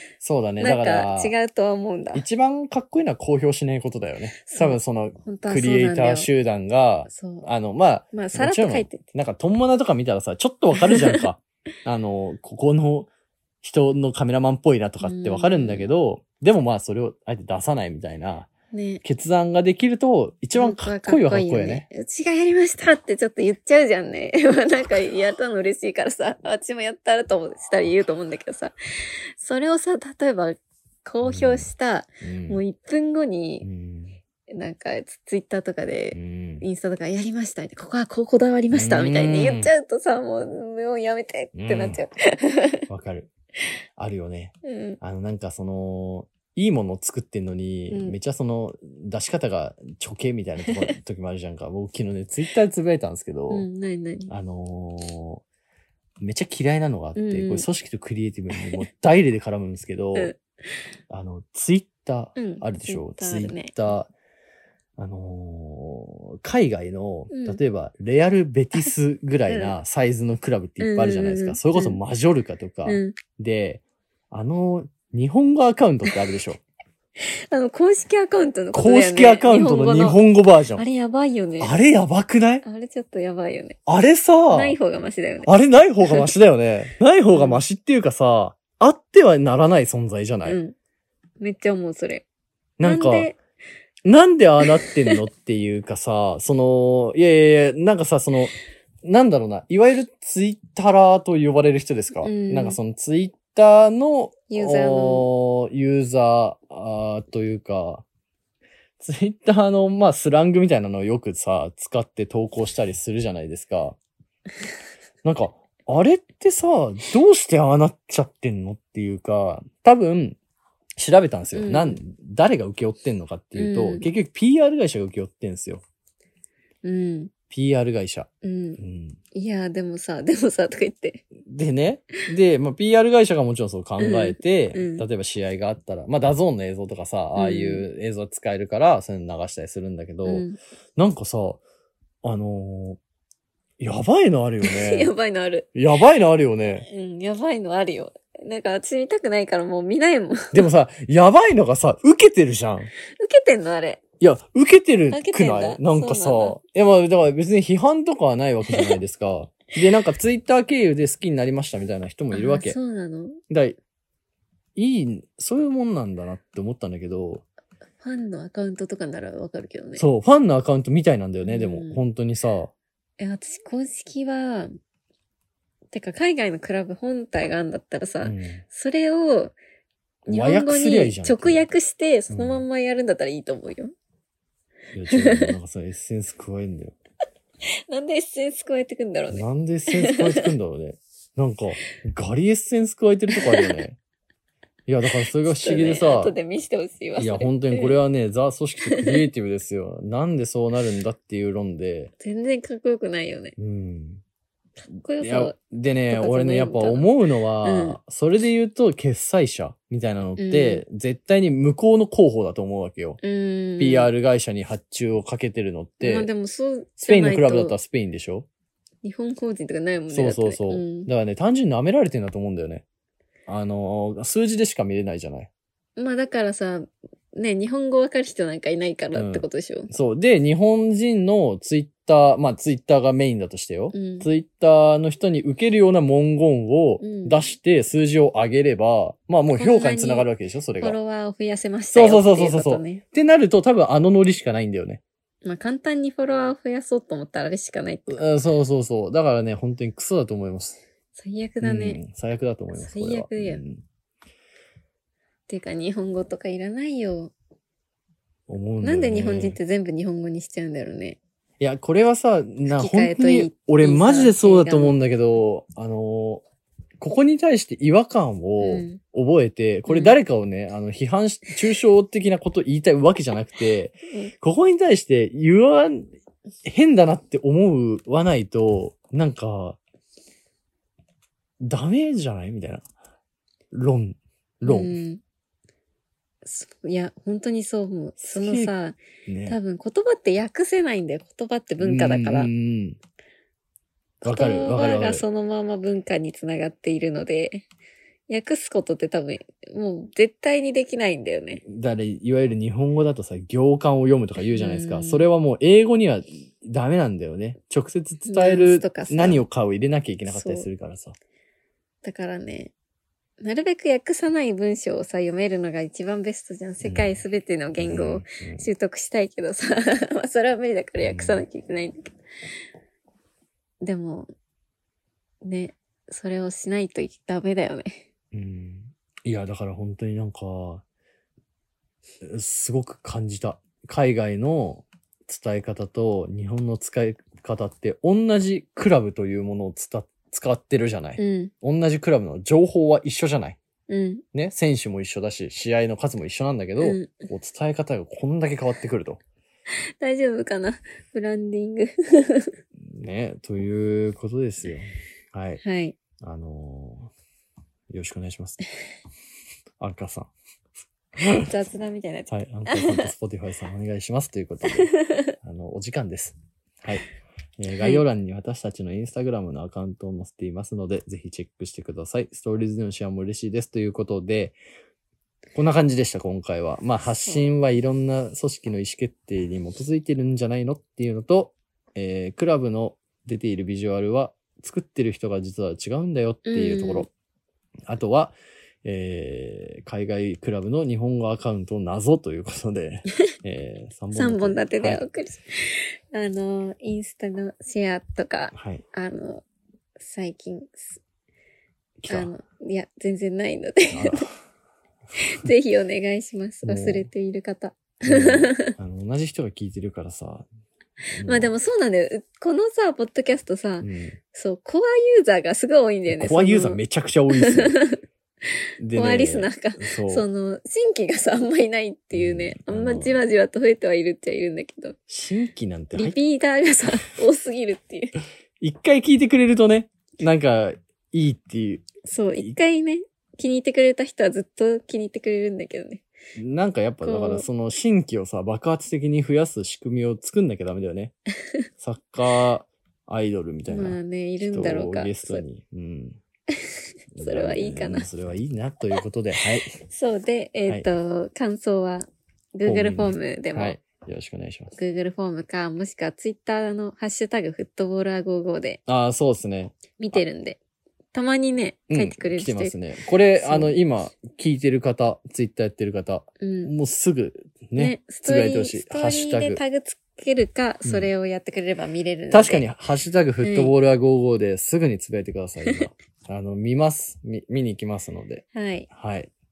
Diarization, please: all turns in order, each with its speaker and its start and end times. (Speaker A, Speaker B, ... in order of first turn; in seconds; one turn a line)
Speaker A: 0.2-1.3
Speaker B: 0.6-2.2
Speaker A: 2.1-13.1
Speaker B: 4.4-6.3
Speaker B: 7.1-7.5
Speaker B: 8.1-9.0
Speaker B: 10.8-11.2
Speaker A: 13.6-18.5
Speaker B: 15.0-15.9
Speaker B: 18.7-19.0
Speaker A: 19.0-21.9
Speaker B: 20.5-28.7
Speaker B: 29.4-33.7
Speaker A: 31.2-31.7
Speaker A: 32.2-32.6
Speaker A: 33.6-34.2
Speaker B: 34.5-42.8
Speaker A: 36.1-36.6
Speaker A: 38.7-39.7
Speaker A: 41.5-42.0
Speaker A: 42.9-43.3
Speaker A: 44.0-53.7
Speaker B: 44.6-45.0
Speaker B: 47.9-48.2
Speaker B: 50.6-50.9
Speaker B: 53.5-54.3
Speaker A: 54.3-55.4
Speaker A: 56.2-60.3
Speaker B: 57.1-57.6
Speaker A: 61.1-64.1
Speaker B: 62.4-63.8
Speaker A: 65.0-76.6
Speaker B: 67.3-67.6
Speaker B: 69.5-69.7
Speaker B: 70.8-72.0
Speaker B: 72.8-73.2
Speaker B: 77.2-80.2
Speaker A: 78.7-80.8
Speaker B: 80.8-81.7
Speaker A: 81.6-82.6
Speaker B: 82.6-83.8
Speaker A: 83.8-84.8
Speaker B: 84.5-86.3
Speaker A: 85.4-90.6
Speaker B: 87.3-87.6
Speaker B: 90.4-90.7
Speaker B: 91.4-92.2
Speaker A: 92.8-93.3
Speaker B: 92.8-93.4
Speaker A: 94.0-108.0
Speaker B: 94.6-95.2
Speaker B: 102.2-102.8
Speaker B: 104.5-105.3
Speaker A: 109.0-114.0
Speaker A: 115.2-120.4
Speaker A: 121.0-125.8
Speaker B: 121.5-122.0
Speaker B: 123.5-124.1
Speaker B: 126.8-127.3
Speaker A: 127.5-129.2
Speaker B: 128.4-128.8
Speaker B: 129.3-131.2
Speaker A: 131.4-141.6
Speaker B: 134.0-135.1
Speaker B: 137.3-137.8
Speaker B: 140.2-140.6
Speaker A: 142.2-143.0
Speaker A: 143.8-145.1
Speaker B: 144.6-145.7
Speaker A: 145.7-146.8
Speaker B: 146.8-150.6
Speaker A: 150.5-152.9
Speaker B: 153.1-154.0
Speaker A: 154.2-162.8
Speaker B: 155.1-156.6
Speaker B: 158.7-159.0
Speaker B: 162.3-163.4
Speaker A: 163.5-163.8
Speaker A: 164.8-167.4
Speaker B: 168.0-170.0
Speaker A: 170.0-172.7
Speaker B: 171.4-172.0
Speaker B: 173.2-174.7
Speaker B: 175.9-179.6
Speaker A: 178.2-178.6
Speaker B: 180.3-183.9
Speaker A: 180.3-181.6
Speaker A: 182.3-182.6
Speaker A: 184.9-186.9
Speaker B: 185.1-185.5
Speaker B: 187.9-190.5
Speaker A: 189.3-194.0
Speaker B: 193.3-193.8
Speaker A: 194.9-196.3
Speaker B: 195.4-198.0
Speaker A: 197.2-202.1
Speaker B: 198.8-199.3
Speaker B: 202.2-203.5
Speaker A: 203.6-204.2
Speaker B: 204.8-205.6
Speaker A: 205.2-213.2
Speaker B: 206.1-207.1
Speaker B: 207.6-208.0
Speaker B: 210.4-210.8
Speaker B: 213.2-214.1
Speaker A: 213.8-216.3
Speaker B: 216.0-217.8
Speaker A: 217.0-218.5
Speaker B: 219.0-221.1
Speaker A: 220.1-222.8
Speaker A: 223.4-225.5
Speaker B: 226.0-229.9
Speaker A: 229.1-241.0
Speaker B: 233.9-234.3
Speaker B: 237.0-237.4
Speaker B: 239.5-240.3
Speaker B: 240.8-243.0
Speaker A: 241.9-245.0
Speaker B: 245.4-248.2
Speaker A: 248.1-250.8
Speaker B: 251.2-252.0
Speaker A: 251.6-253.8
Speaker B: 252.7-253.6
Speaker B: 255.5-257.3
Speaker A: 258.5-259.6
Speaker B: 258.8-261.2
Speaker A: 261.6-266.4
Speaker B: 262.7-264.9
Speaker A: 267.0-276.1
Speaker B: 268.6-269.0
Speaker B: 269.9-270.1
Speaker A: 276.6-279.8
Speaker A: 281.6-282.9
Speaker A: 283.7-284.9
Speaker B: 284.6-285.2
Speaker B: 286.4-292.5
Speaker A: 288.2-288.7
Speaker A: 289.3-289.6
Speaker A: 291.8-293.0
Speaker B: 294.2-297.6
Speaker A: 294.2-295.2
Speaker B: 298.3-301.6
Speaker A: 301.6-311.1
Speaker B: 304.4-305.3
Speaker B: 308.3-309.4
Speaker B: 310.3-310.7
Speaker B: 312.0-312.7
Speaker B: 313.4-322.1
Speaker A: 316.8-317.2
Speaker A: 317.8-318.7
Speaker A: 321.0-321.4
Speaker B: 323.8-324.3
Speaker B: 325.4-328.0
Speaker A: 328.3-330.8
Speaker A: 332.2-343.6
Speaker B: 341.2-341.5
Speaker B: 343.9-344.2
Speaker A: 344.3-349.2
Speaker B: 346.8-347.3
Speaker B: 350.0-352.5
Speaker A: 352.8-355.6
Speaker B: 355.6-355.9
Speaker A: 356.2-357.1
Speaker A: 357.9-358.6
Speaker A: 359.8-360.3
Speaker A: 361.1-361.5
Speaker B: 361.4-363.1
Speaker A: 362.3-367.1
Speaker B: 364.7-365.3
Speaker A: 367.6-374.6
Speaker B: 367.8-368.0
Speaker A: 375.5-387.1
Speaker B: 386.4-387.1
Speaker A: 387.9-395.0
Speaker B: 394.1-399.4
Speaker A: 398.5-398.8
Speaker B: 400.0-401.0
Speaker A: 402.0-402.3
Speaker B: 402.1-404.3
Speaker A: 403.9-404.3
Speaker B: 405.1-408.7
Speaker A: 406.6-407.1
Speaker A: 408.0-410.5
Speaker A: 411.1-411.5
Speaker B: 411.2-416.8
Speaker A: 413.8-414.2
Speaker A: 416.1-417.8
Speaker B: 417.3-418.0
Speaker A: 418.8-420.3
Speaker B: 418.9-425.0
Speaker A: 422.1-423.2
Speaker A: 425.1-426.2
Speaker B: 425.9-428.1
Speaker A: 428.6-431.9
Speaker B: 432.0-436.0
Speaker A: 436.4-441.1
Speaker B: 437.0-437.5
Speaker A: 441.8-446.2
Speaker B: 443.7-445.4
Speaker B: 446.6-448.0
Speaker A: 447.1-449.8
Speaker B: 449.9-453.8
Speaker A: 452.6-454.7
Speaker B: 454.7-458.8
Speaker A: 458.9-460.2
Speaker B: 460.0-460.6
Speaker B: 461.1-462.7
Speaker A: 461.9-469.6
Speaker B: 463.4-463.7
Speaker B: 466.4-466.7
Speaker B: 467.8-472.6
Speaker A: 470.8-471.1
Speaker A: 472.3-479.3
Speaker B: 473.4-473.7
Speaker B: 478.5-478.9